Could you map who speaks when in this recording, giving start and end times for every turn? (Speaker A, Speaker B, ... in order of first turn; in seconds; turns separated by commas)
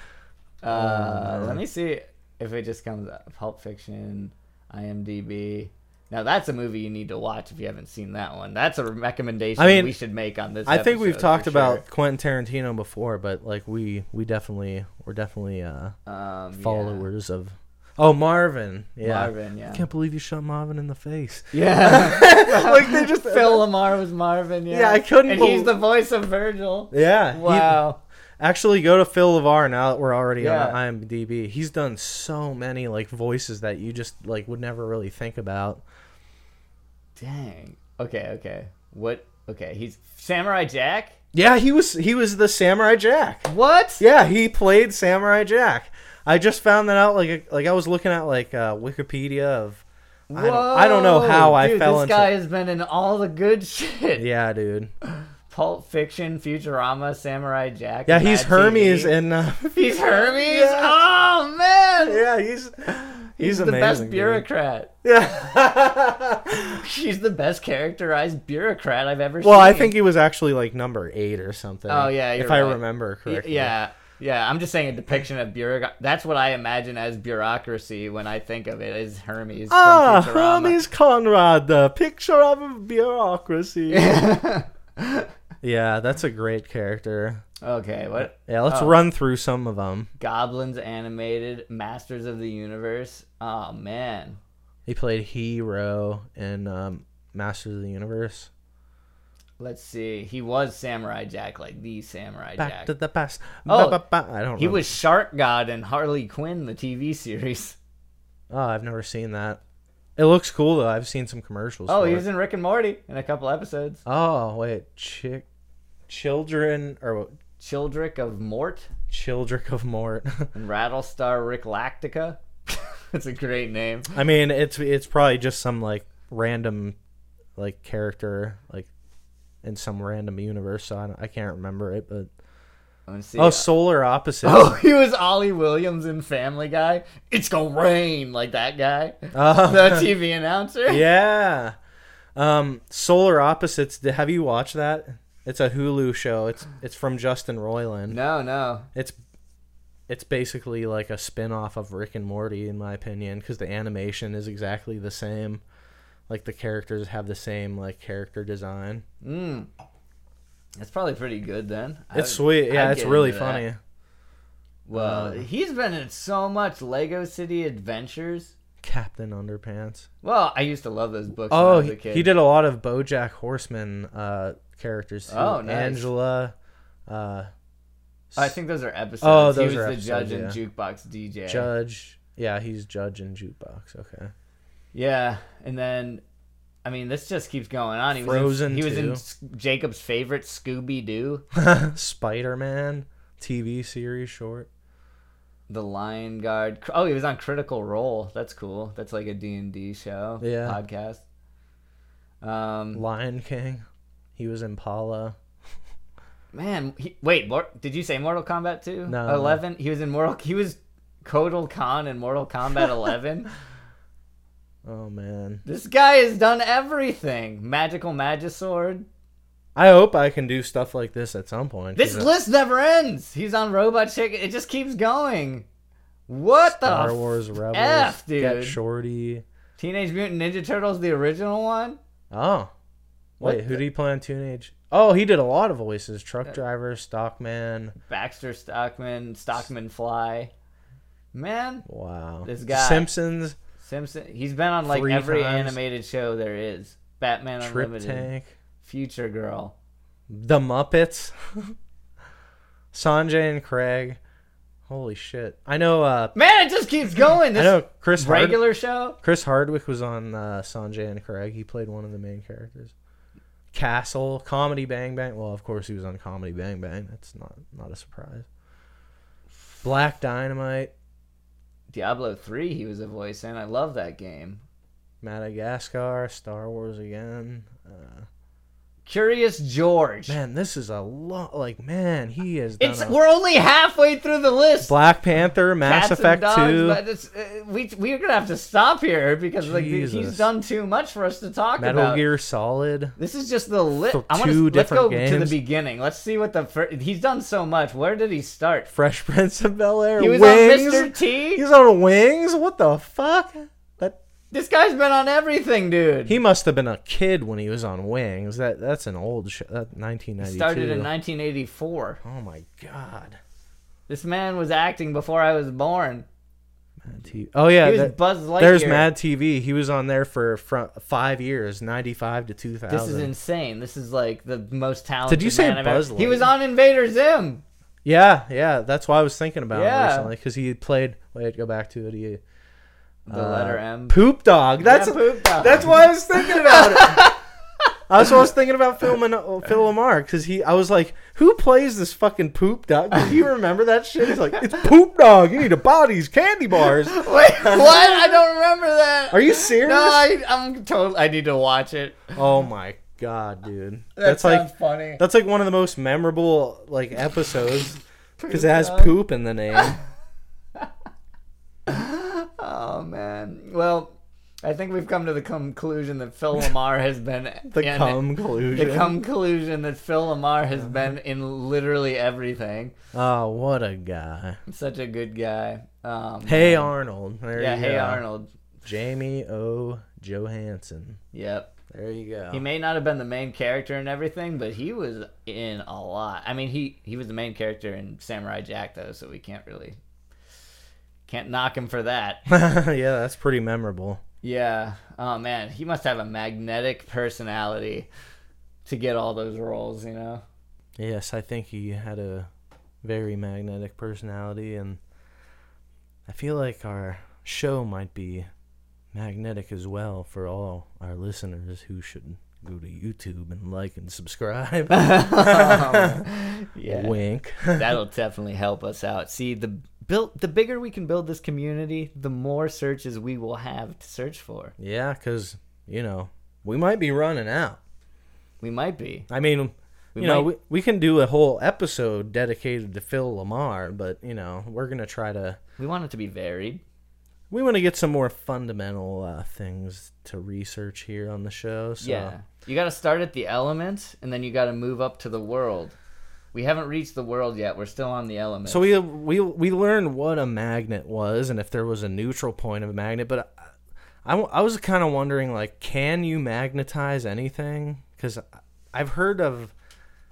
Speaker A: 0.6-11.8, Speaker B: 0.7-1.6, Speaker B: 9.6-9.9, Speaker B: 10.7-15.9, Speaker A: 16.1-17.1, Speaker B: 16.6-23.6, Speaker A: 19.0-19.8, Speaker A: 21.5-28.0, Speaker B: 24.7-25.7, Speaker B: 26.9-27.8, Speaker B: 28.4-35.8, Speaker A: 30.4-30.8, Speaker A: 37.2-41.2, Speaker B: 41.3-52.3, Speaker A: 43.5-44.0, Speaker A: 50.3-54.2, Speaker B: 54.2-54.9, Speaker A: 55.2-59.1, Speaker B: 58.1-60.9, Speaker A: 59.7-62.2, Speaker B: 62.1-64.4, Speaker A: 62.9-64.9, Speaker B: 65.0-66.8, Speaker A: 66.6-69.9, Speaker B: 69.4-73.7, Speaker A: 71.9-80.8, Speaker B: 79.7-84.2, Speaker A: 83.9-85.3, Speaker B: 85.6-87.4, Speaker A: 87.6-89.0, Speaker B: 88.2-90.1, Speaker A: 90.2-94.4, Speaker B: 94.9-98.5, Speaker A: 99.6-102.9, Speaker B: 102.6-105.0, Speaker A: 103.7-104.0, Speaker A: 104.6-107.8, Speaker B: 108.5-109.6, Speaker B: 110.2-112.2, Speaker A: 111.9-114.0, Speaker B: 114.0-115.4, Speaker B: 116.1-117.3, Speaker A: 117.6-118.9, Speaker B: 119.1-120.5, Speaker A: 120.5-124.1, Speaker B: 124.1-127.0, Speaker B: 127.6-128.9, Speaker B: 129.6-132.3, Speaker A: 133.1-133.7, Speaker B: 133.4-134.8, Speaker A: 134.4-141.0, Speaker B: 139.3-140.1, Speaker B: 140.9-141.7, Speaker B: 142.3-148.2, Speaker A: 148.1-148.9, Speaker B: 150.1-155.6, Speaker B: 156.3-159.0, Speaker A: 159.2-159.7, Speaker A: 160.8-163.6, Speaker B: 162.1-163.8, Speaker A: 164.8-168.5, Speaker B: 164.9-165.4, Speaker B: 168.8-170.1, Speaker A: 170.2-172.3, Speaker B: 171.5-176.5, Speaker A: 175.3-176.1, Speaker B: 177.1-177.5, Speaker A: 178.3-181.7, Speaker B: 179.2-180.6, Speaker B: 181.5-184.3, Speaker A: 184.9-186.2, Speaker A: 186.8-191.4, Speaker B: 188.1-189.2, Speaker B: 191.5-194.7, Speaker A: 195.7-201.2, Speaker B: 200.4-200.8, Speaker A: 202.4-203.0, Speaker B: 202.9-203.8, Speaker B: 204.4-205.3, Speaker A: 206.5-213.5, Speaker B: 209.1-209.6, Speaker B: 214.8-215.6, Speaker A: 215.6-219.1, Speaker B: 219.8-222.3, Speaker A: 221.9-225.7, Speaker A: 226.3-228.8, Speaker B: 226.6-229.4, Speaker A: 229.8-232.0, Speaker B: 232.3-232.7, Speaker B: 233.4-237.9, Speaker A: 233.4-233.8, Speaker A: 238.1-240.5, Speaker A: 241.3-241.8, Speaker B: 241.8-243.6, Speaker A: 242.4-243.1, Speaker A: 243.8-248.3, Speaker B: 244.9-245.8, Speaker B: 247.6-248.5, Speaker A: 248.8-249.7, Speaker B: 250.3-251.7, Speaker B: 252.9-254.2, Speaker B: 254.9-256.3, Speaker A: 256.3-259.2, Speaker B: 257.5-258.6, Speaker B: 259.2-262.9, Speaker B: 263.7-268.5, Speaker B: 269.8-270.9, Speaker A: 271.9-274.6, Speaker B: 275.2-278.3, Speaker A: 279.1-280.4, Speaker B: 280.3-283.1, Speaker A: 282.8-284.9, Speaker B: 284.8-287.0, Speaker A: 285.8-292.2, Speaker B: 289.6-290.4, Speaker B: 291.8-293.1, Speaker A: 293.2-298.9, Speaker B: 294.1-295.6, Speaker B: 298.9-304.2, Speaker A: 300.2-301.6, Speaker A: 304.5-306.4, Speaker B: 306.3-311.1, Speaker A: 310.4-312.2, Speaker B: 312.2-313.4, Speaker A: 314.1-316.2, Speaker B: 317.0-323.3, Speaker A: 317.8-319.1, Speaker A: 322.9-327.6, Speaker B: 325.3-326.5, Speaker B: 328.0-332.4, Speaker A: 329.7-330.3, Speaker A: 333.2-334.2, Speaker B: 333.3-337.3, Speaker A: 334.8-337.4, Speaker B: 338.1-348.4, Speaker A: 347.0-352.3, Speaker B: 349.3-350.3, Speaker B: 352.3-360.0, Speaker A: 354.1-355.2, Speaker A: 358.4-359.2, Speaker A: 361.9-372.9, Speaker B: 367.7-369.2, Speaker B: 373.1-374.6, Speaker A: 374.7-376.9, Speaker B: 376.4-378.2, Speaker A: 377.5-378.5, Speaker B: 378.8-381.2, Speaker A: 381.3-381.7, Speaker B: 381.9-382.6, Speaker A: 382.5-390.0, Speaker A: 391.3-392.4, Speaker B: 392.5-394.2, Speaker A: 394.4-398.1, Speaker A: 398.8-400.4, Speaker B: 401.0-402.5, Speaker B: 403.0-405.0, Speaker B: 406.3-408.5, Speaker B: 409.1-416.2, Speaker A: 414.9-417.2, Speaker B: 416.9-418.0, Speaker A: 417.7-424.7, Speaker B: 424.8-427.8, Speaker A: 428.6-429.3, Speaker B: 429.3-435.6, Speaker A: 430.1-430.5, Speaker A: 435.8-436.8, Speaker B: 437.5-442.3, Speaker A: 442.0-445.9, Speaker A: 446.5-448.9, Speaker B: 448.7-453.6, Speaker B: 454.2-459.7